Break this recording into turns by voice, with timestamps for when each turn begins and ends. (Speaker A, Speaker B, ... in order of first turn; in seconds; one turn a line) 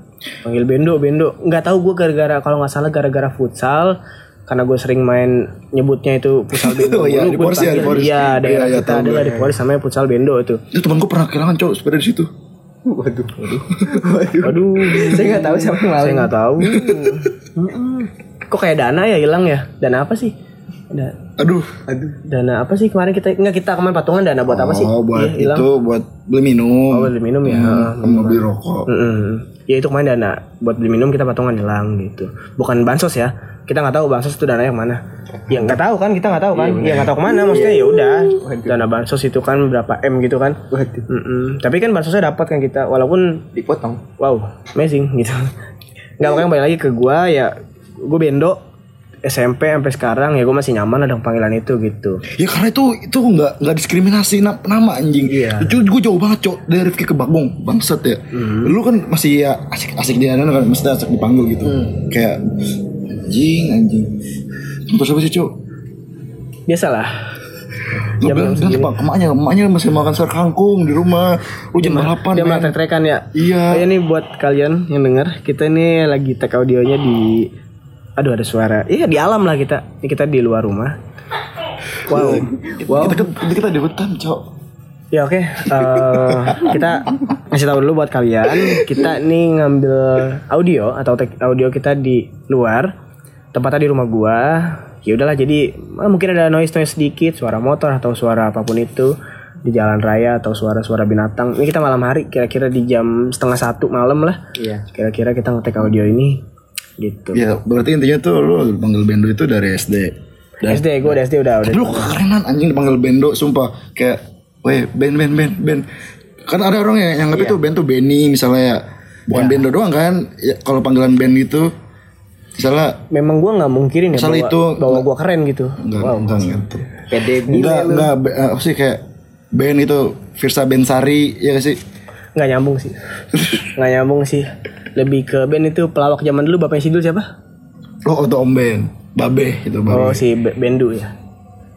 Speaker A: 0.4-3.9
Speaker A: 4.5-10.6
Speaker B: 6.5-9.5
Speaker B: 10.7-12.3
Speaker C: 12.8-16.3
Speaker A: 14.4-20.3
Speaker B: 16.6-17.3
Speaker A: 20.9-21.2
Speaker B: 21.4-21.8
Speaker C: 21.9-22.2
Speaker A: 22.2-25.7
Speaker B: 24.5-28.9
Speaker A: 26.9-40.6
Speaker C: 36.5-38.8
Speaker C: 40.7-41.0
Speaker A: 41.1-43.4
Speaker C: 43.5-44.0
Speaker A: 44.2-45.5
Speaker A: 46.2-47.5
Speaker A: 48.0-48.6
Speaker A: 49.2-52.2
Speaker B: 52.3-62.4
Speaker A: 55.3-55.7
Speaker A: 58.3-58.7
Speaker B: 63.1-64.1
Speaker B: 64.9-65.5
Speaker A: 66.7-67.1
Speaker A: 67.9-68.9
Speaker B: 68.2-72.7
Speaker A: 71.8-77.5
Speaker B: 73.3-73.9
Speaker A: 78.2-80.9
Speaker A: 82.0-82.5
Speaker B: 82.1-84.4
Speaker C: 82.6-83.3
Speaker A: 85.1-92.9
Speaker B: 85.7-86.8
Speaker B: 88.6-88.9
Speaker A: 93.5-99.1
Speaker A: 99.6-104.4
Speaker C: 104.6-104.8
Speaker A: 104.9-106.4
Speaker A: 107.0-107.4
Speaker B: 107.3-111.1
Speaker A: 110.6-112.2
Speaker B: 111.6-115.8
Speaker B: 116.5-121.7
Speaker C: 117.3-117.6
Speaker C: 119.3-119.6
Speaker B: 122.6-123.0
Speaker A: 123.1-126.5
Speaker B: 124.1-125.0
Speaker B: 125.8-126.9
Speaker C: 127.1-128.1
Speaker B: 127.5-129.0
Speaker B: 129.5-131.8
Speaker A: 132.3-133.0
Speaker B: 133.3-133.7
Speaker A: 133.7-137.2
Speaker B: 138.1-140.2
Speaker A: 139.9-141.1